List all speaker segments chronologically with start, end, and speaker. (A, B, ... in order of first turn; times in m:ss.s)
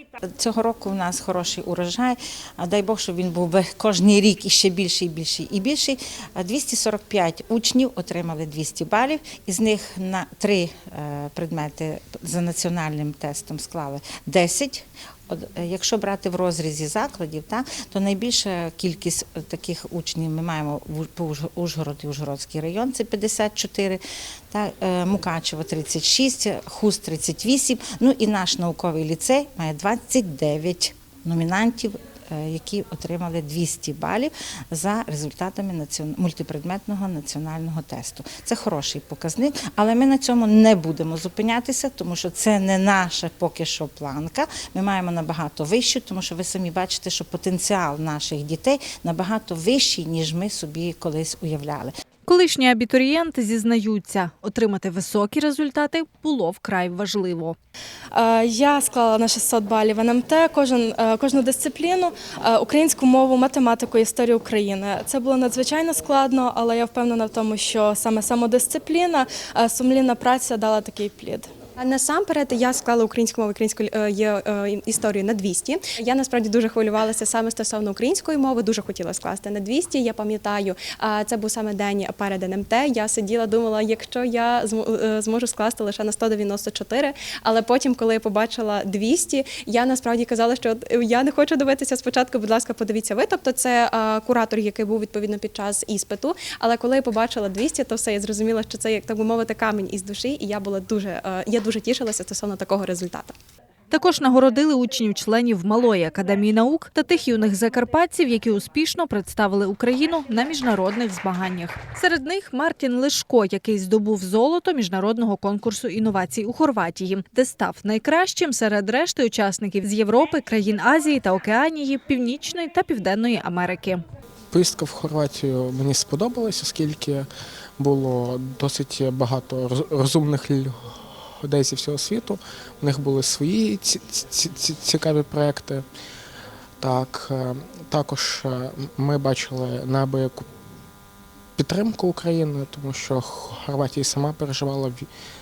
0:00.2-0:51.9 A
0:52.2-0:57.6 B
0:58.1-1:11.5 C
1:11.8-1:43.3 D
1:43.9-2:04.0 B
2:04.5-2:10.8 E
2:11.4-2:15.8 E
2:16.8-2:20.4 E
2:21.6-2:25.1 E